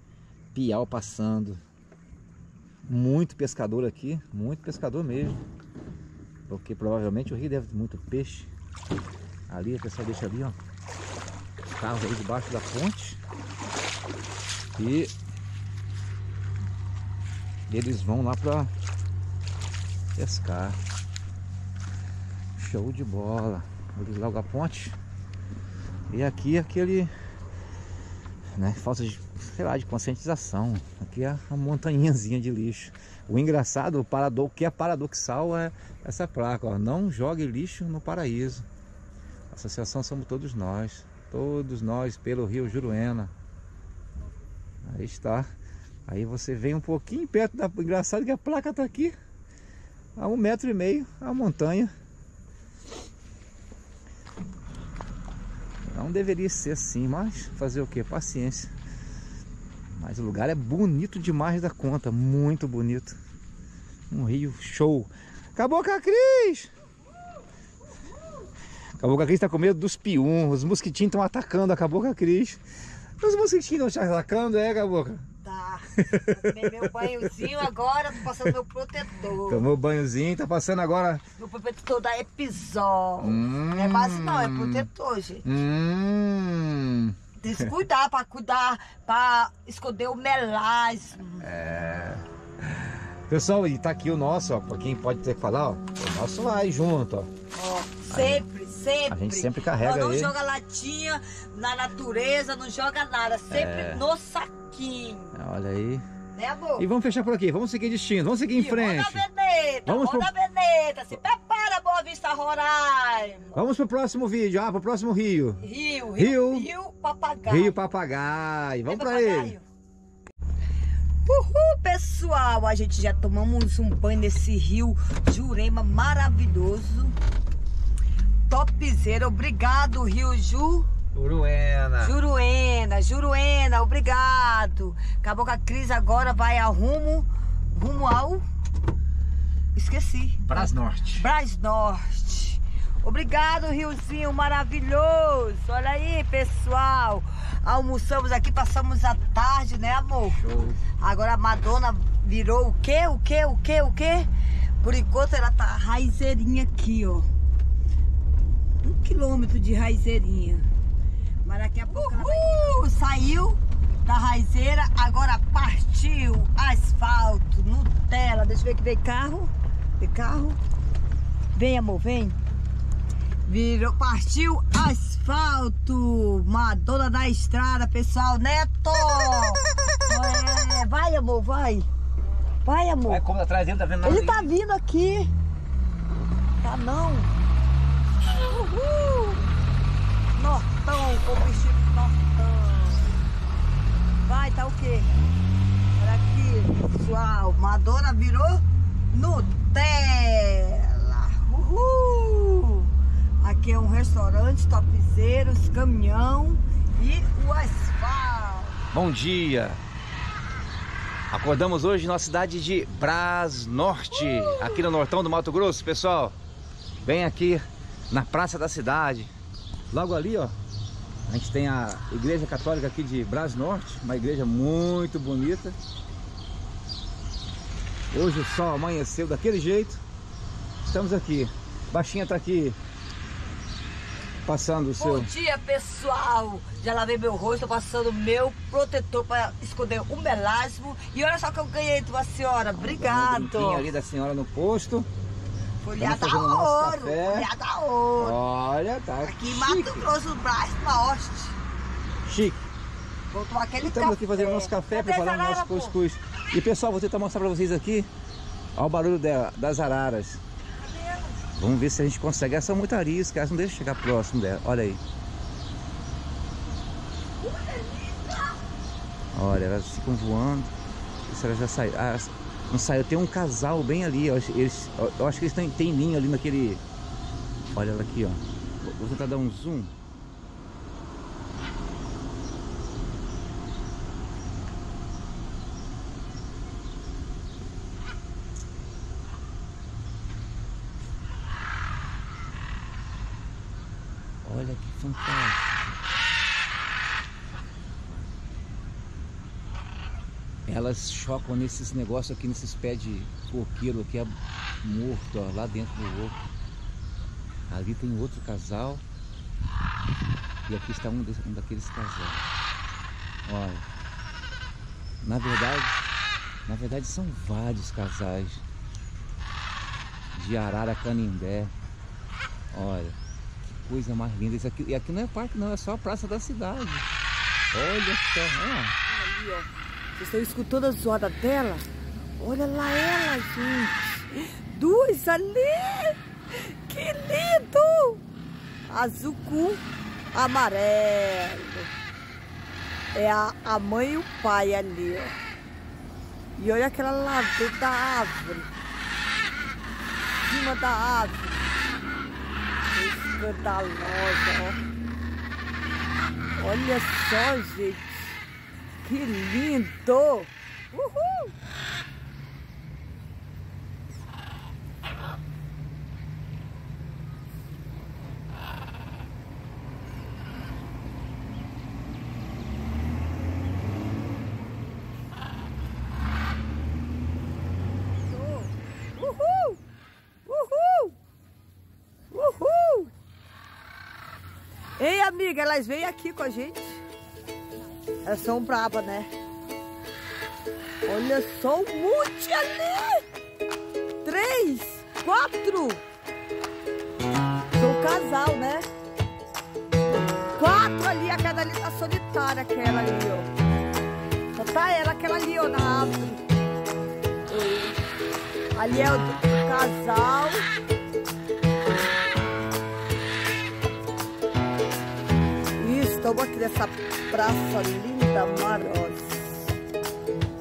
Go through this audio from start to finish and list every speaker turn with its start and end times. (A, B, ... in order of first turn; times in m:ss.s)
0:00.5-0:01.6 A
0:02.9-0:05.4 A
0:06.5-0:08.5 A
0:09.5-0:10.6 A
0:11.6-0:13.2 A
0:14.8-0:15.1 A
0:17.7-0:18.7 A
0:20.2-0:20.8 A
0:22.6-0:25.0 A
0:26.1-0:27.1 A
0:28.6-0:38.7 A
0:39.5-0:43.3 A
0:44.8-0:45.5 A
0:46.1-0:49.1 A
0:50.2-0:51.9 A
0:55.9-0:58.7 A
1:00.0-1:03.2 A
1:04.1-1:06.7 A
1:09.0-1:12.6 A
1:13.2-1:15.2 A
1:15.4-1:19.7 B
1:16.0-1:17.5 A
1:19.4-1:21.2 A
1:21.4-1:25.4 B
1:23.2-1:24.9 A
1:25.4-1:27.2 A
1:27.4-1:31.5 B
1:31.4-1:37.3 A
1:37.5-1:45.4 B
1:38.1-1:38.4 A
1:39.1-1:40.3 A
1:43.5-1:44.0 A
1:45.4-1:46.0 A
1:46.4-1:46.9 B
1:46.8-1:49.2 A
1:48.5-1:53.6 B
1:49.9-1:50.3 A
1:53.5-1:55.6 A
1:55.6-1:57.8 B
1:56.1-1:56.7 A
1:57.5-1:59.6 A
1:58.9-1:59.6 B
2:01.2-2:07.2 B
2:08.5-2:10.9 B
2:11.1-2:12.2 A
2:12.0-2:18.4 B
2:19.8-2:30.4 B
2:20.4-2:21.3 A
2:30.3-2:30.8 A
2:31.0-2:37.3 B
2:38.8-2:40.7 B
2:41.4-2:50.6 B
2:51.5-2:52.4 B
2:53.5-3:01.9 B
3:02.6-3:03.2 B
3:03.1-3:04.5 A
3:04.0-3:05.3 B
3:06.6-3:07.3 B
3:08.3-3:09.4 B
3:10.4-3:13.0 B
3:14.2-3:15.2 B
3:16.0-3:28.8 B
3:28.9-3:29.8 A
3:31.3-3:36.4 A
3:34.1-3:34.8 B
3:37.0-3:39.3 A
3:39.9-3:40.5 A
3:41.3-3:45.8 A
3:48.1-3:50.0 A
3:50.8-3:52.8 A
3:54.4-3:55.3 A
3:55.0-4:03.9 B
4:02.8-4:05.1 A
4:05.8-4:08.4 B
4:06.0-4:07.5 A
4:08.2-4:10.1 A
4:09.2-4:11.6 B
4:12.2-4:12.7 A
4:13.3-4:16.0 B
4:13.8-4:18.1 A
4:18.8-4:20.4 A
4:20.8-4:21.4 B
4:21.6-4:25.0 A
4:27.4-4:28.6 B
4:29.3-4:30.7 A
4:31.3-4:36.8 A
4:37.7-4:39.9 A
4:54.4-4:56.0 A
5:00.7-5:06.4 A
5:07.7-5:09.0 A
5:10.7-5:12.5 A
5:13.5-5:13.9 A
5:15.2-5:16.0 A
5:16.7-5:18.6 A
5:20.4-5:21.7 A
5:22.7-5:27.1 A
5:27.7-5:29.0 A
5:29.1-5:31.9 B
5:32.4-5:38.2 B
5:38.9-5:39.8 B
5:40.3-5:41.9 B
5:43.1-5:45.4 B
5:46.6-5:48.7 B
5:50.4-5:51.6 B
5:52.9-5:54.8 B
5:56.6-5:58.4 B
5:59.0-6:01.6 B
6:18.3-6:19.8 B
6:20.5-6:21.2 B
6:22.3-6:23.1 B
6:25.0-6:27.0 B
6:28.2-6:29.3 B
6:31.1-6:33.2 B
6:34.2-6:36.0 B
6:37.8-6:38.9 B
6:40.6-6:43.5 B
6:44.5-6:46.4 B
6:47.5-6:48.0 B
6:48.8-6:50.7 B
6:55.8-6:59.7 B